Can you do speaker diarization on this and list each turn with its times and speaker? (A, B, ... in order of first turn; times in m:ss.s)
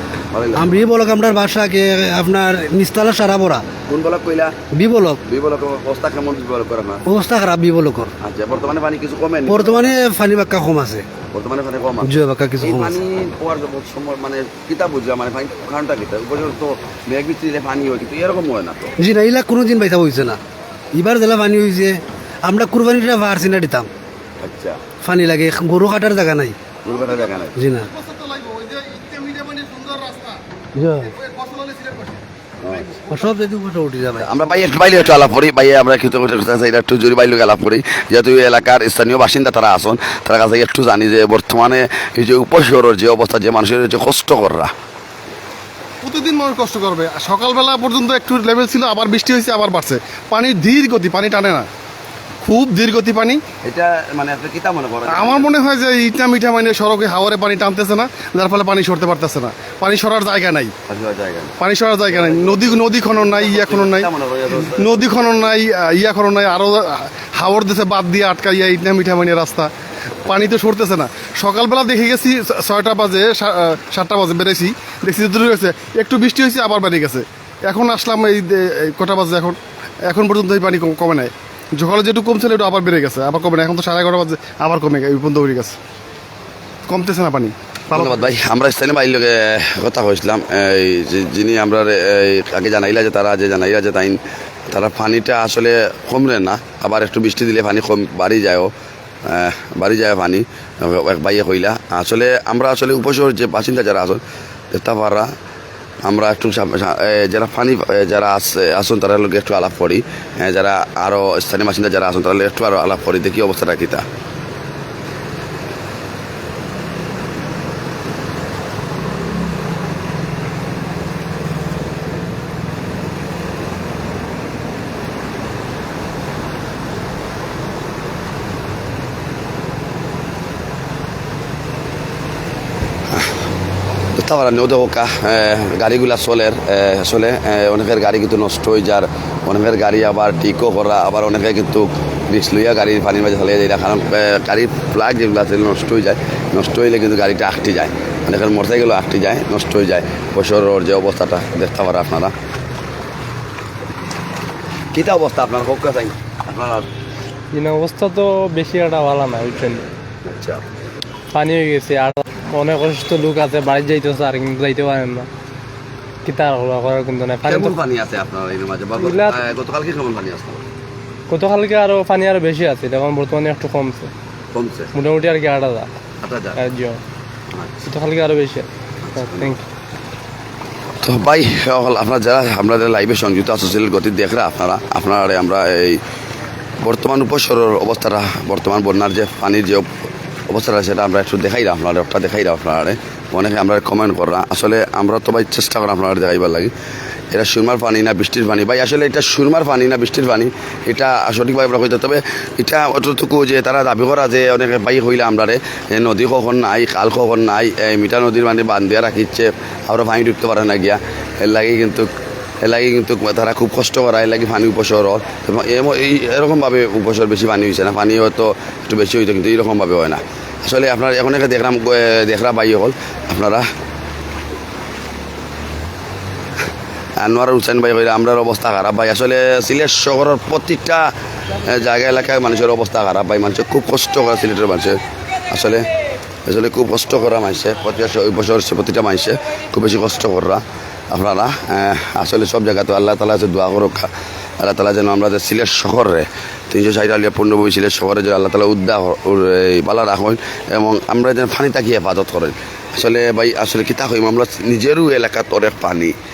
0:00.3-0:00.8 A
0:00.5-0:03.7 B
0:03.9-0:04.5 A
0:04.7-0:05.2 B
0:05.2-0:07.0 A
0:07.0-0:08.1 B
0:08.2-0:10.0 A
0:09.5-0:11.1 B
0:11.3-0:18.9 A
0:12.0-0:12.9 B
0:19.0-0:20.4 B
0:20.9-0:23.9 B
0:24.4-0:24.8 A
0:25.0-0:26.6 B
0:26.8-0:27.6 A
0:27.5-0:27.9 B
0:28.0-0:30.4 C
0:30.7-0:31.2 B
0:31.1-0:32.2 C
0:32.6-0:33.0 A
0:33.1-0:34.3 B
0:34.2-0:44.7 A
0:46.0-0:51.7 C
0:52.4-0:53.4 C
0:53.6-0:55.5 A
0:55.0-1:00.7 C
1:00.9-1:01.5 A
1:01.6-1:09.7 C
1:02.1-1:05.4 A
1:10.2-1:25.8 C
1:26.9-1:28.2 C
1:27.9-1:38.7 A
1:39.2-1:44.2 A
1:44.7-1:45.3 A
1:46.0-1:54.0 A
2:14.1-2:32.3 A
2:34.9-2:36.9 A
2:37.5-2:39.8 D
2:40.2-2:40.6 A
2:41.3-2:45.3 D
2:46.2-2:47.7 D
2:47.4-2:50.6 A
2:49.0-2:49.4 D
2:51.3-2:54.1 D
2:54.5-2:54.9 A
2:54.9-2:55.9 D
2:56.2-2:56.6 A
2:56.6-2:57.0 D
2:57.5-2:57.9 A
2:57.8-2:59.6 D
2:59.0-2:59.5 A
3:01.0-3:06.0 A
3:06.8-3:09.9 A
3:10.5-3:16.7 A
3:17.3-3:32.1 A
3:32.6-3:43.7 A
3:47.2-3:51.1 A
3:51.6-3:55.8 A
3:56.4-4:16.1 A